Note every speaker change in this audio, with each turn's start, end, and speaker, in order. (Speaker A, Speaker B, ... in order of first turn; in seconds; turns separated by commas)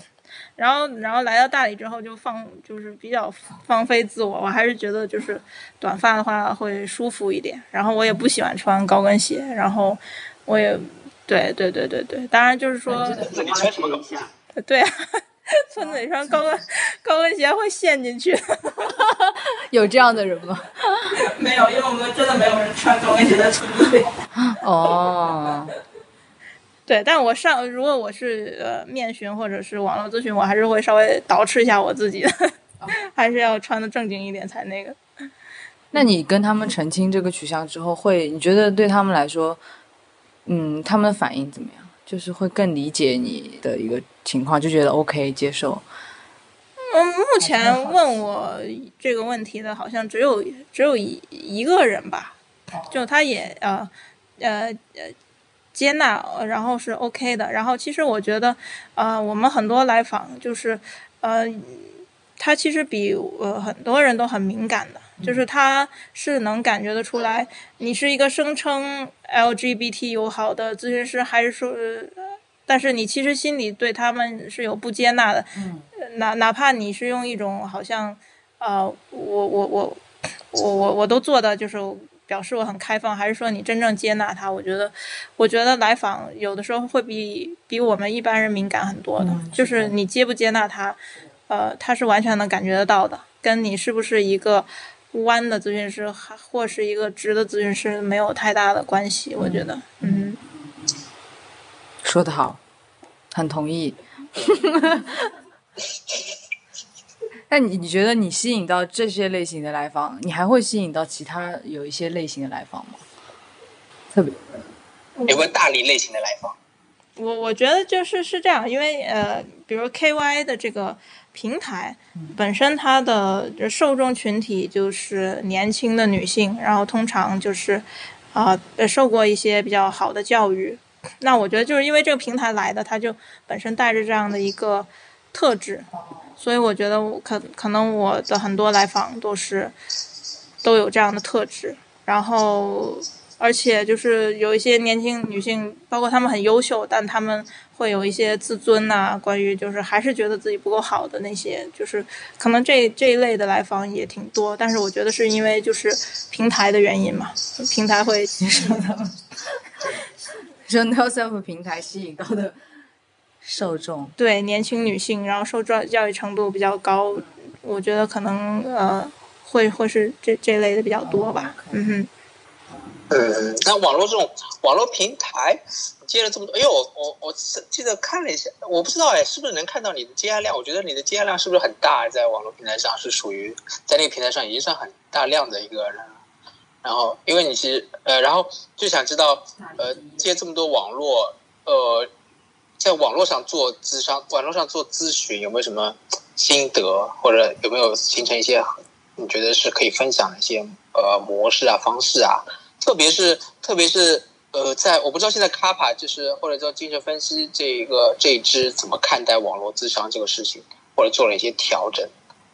Speaker A: 0.6-13.3, Speaker B: 12.9-14.3, Speaker C: 13.2-14.2, Speaker A: 14.6-19.0, Speaker B: 15.8-16.4, Speaker B: 18.8-21.2, Speaker A: 21.1-24.2, Speaker B: 24.3-25.7, Speaker A: 26.9-35.0, Speaker B: 35.9-39.6, Speaker B: 40.5-45.8, Speaker A: 46.8-52.4, Speaker B: 47.4-48.2, Speaker B: 52.7-53.0, Speaker A: 52.9-55.1, Speaker A: 55.7-80.0, Speaker B: 75.5-75.9, Speaker A: 80.5-100.4, Speaker B: 89.2-89.9, Speaker B: 99.4-101.0, Speaker B: 102.0-102.6, Speaker B: 103.3-105.3, Speaker B: 107.5-113.0, Speaker B: 114.1-114.7, Speaker A: 115.2-115.5, Speaker C: 115.3-116.5, Speaker A: 117.2-139.7, Speaker B: 136.0-136.3, Speaker A: 140.6-158.8, Speaker B: 158.4-159.2, Speaker B: 160.7-162.6, Speaker B: 163.4-164.1, Speaker A: 164.2-172.1, Speaker B: 171.0-171.9, Speaker B: 172.7-173.0, Speaker C: 173.1-186.2, Speaker C: 186.8-192.1, Speaker B: 189.6-190.3, Speaker C: 192.8-212.1